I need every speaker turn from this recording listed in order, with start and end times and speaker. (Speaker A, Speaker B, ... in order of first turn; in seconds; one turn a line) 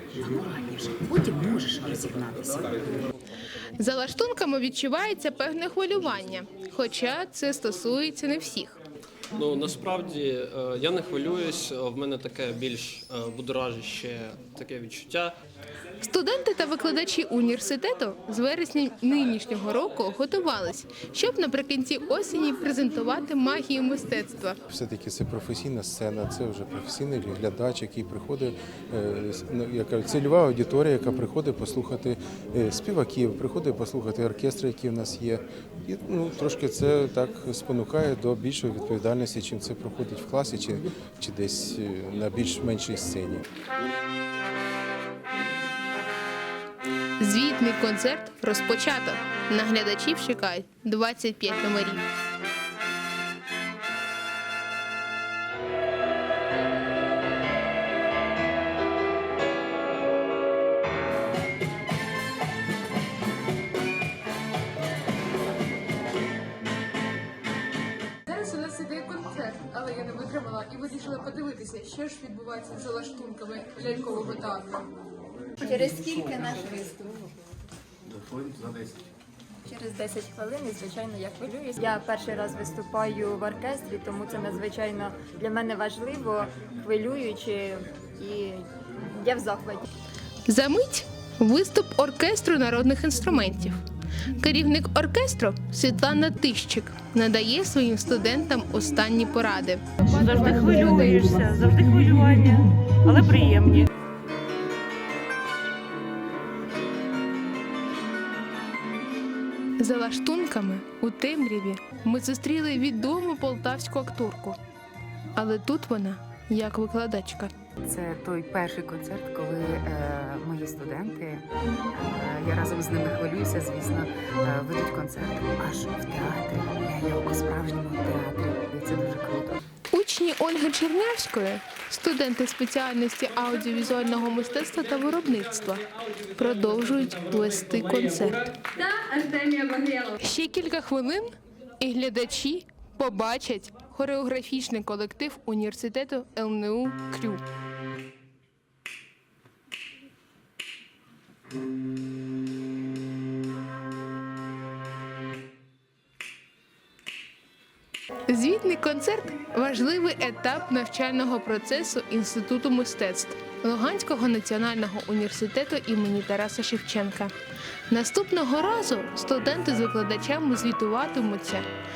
Speaker A: 0.2-3.0
Speaker B: 3.8-8.8
Speaker C: 9.3-15.3
Speaker B: 16.0-24.6
Speaker D: 24.7-43.5
Speaker B: 47.2-52.0
Speaker B: 68.2-74.9
Speaker E: 75.6-77.2
Speaker E: 79.7-89.9
Speaker B: 90.5-100.0
Speaker F: 100.1-103.9
Speaker B: 109.8-114.6
Speaker B: 115.3-117.5
Speaker A: 117.8-129.6
Speaker B: 129.9-138.6
Speaker E: 138.8-140.2
Speaker B: 140.2-147.4
Speaker B: 158.3-167.3
Speaker B: 167.9-171.7